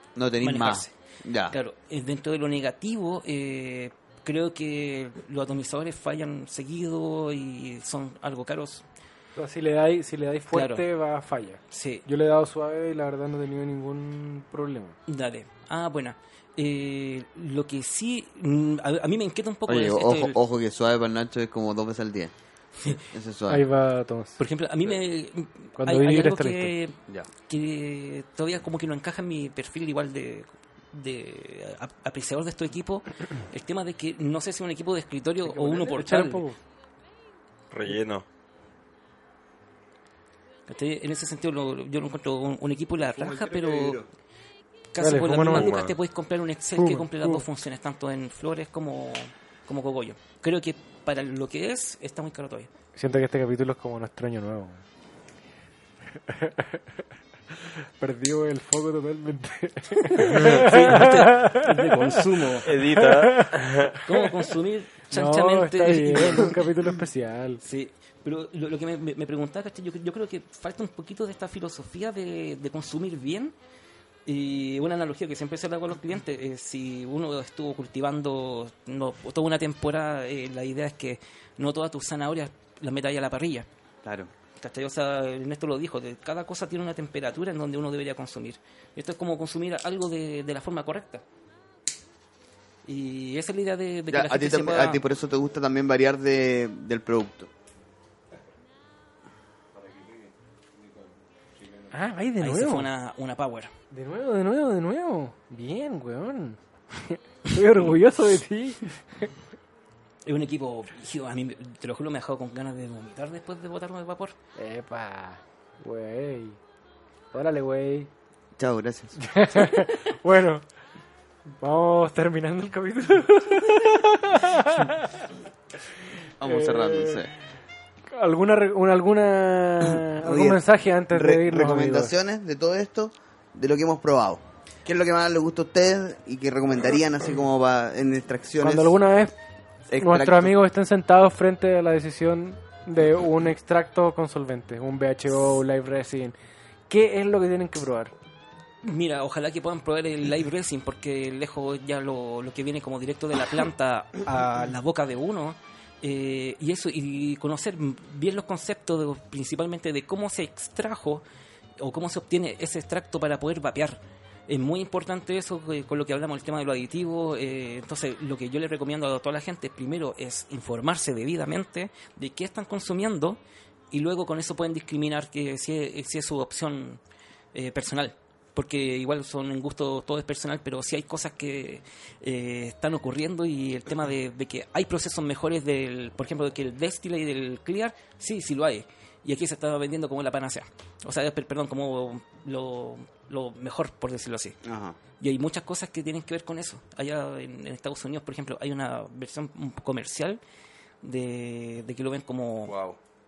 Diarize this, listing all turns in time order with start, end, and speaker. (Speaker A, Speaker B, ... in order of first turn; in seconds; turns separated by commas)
Speaker A: 0.2-1.6, Speaker B: 0.4-0.9, Speaker B: 1.5-8.8, Speaker C: 9.3-15.0, Speaker B: 10.5-10.9, Speaker B: 11.7-12.1, Speaker B: 15.1-20.4, Speaker A: 19.7-22.3, Speaker A: 22.9-23.7, Speaker C: 23.5-24.4, Speaker B: 24.4-27.0, Speaker C: 25.8-26.7, Speaker B: 27.5-36.5, Speaker C: 35.5-36.6, Speaker D: 37.7-38.2, Speaker B: 40.7-44.0, Speaker A: 43.0-44.1, Speaker B: 44.9-52.7, Speaker C: 45.0-45.8, Speaker D: 45.5-46.0, Speaker C: 46.8-47.5, Speaker C: 53.0-54.8, Speaker C: 56.3-56.8, Speaker C: 58.0-64.0, Speaker B: 60.2-62.7, Speaker D: 60.3-60.8, Speaker D: 62.6-64.0, Speaker B: 64.0-66.6, Speaker C: 65.1-67.6, Speaker B: 67.6-73.5, Speaker B: 74.3-83.7, Speaker A: 84.0-84.3, Speaker B: 84.6-91.2, Speaker B: 92.8-95.0, Speaker A: 94.1-97.5, Speaker D: 99.8-101.1, Speaker C: 101.9-102.9, Speaker B: 102.4-103.7, Speaker C: 103.9-109.3, Speaker B: 110.2-114.4, Speaker C: 114.5-116.6, Speaker C: 117.3-118.1, Speaker A: 118.6-119.2, Speaker C: 119.2-120.6, Speaker C: 121.5-125.1, Speaker A: 126.4-127.3, Speaker C: 126.4-127.2, Speaker C: 128.1-132.1, Speaker A: 129.9-139.0, Speaker C: 138.6-139.3, Speaker A: 139.9-140.6, Speaker C: 140.0-146.3, Speaker C: 146.9-148.1, Speaker B: 148.8-161.2, Speaker B: 161.8-173.4, Speaker B: 173.9-177.0, Speaker B: 177.5-194.6, Speaker A: 194.6-195.0, Speaker B: 195.2-200.4, Speaker B: 201.0-202.7, Speaker D: 202.7-203.0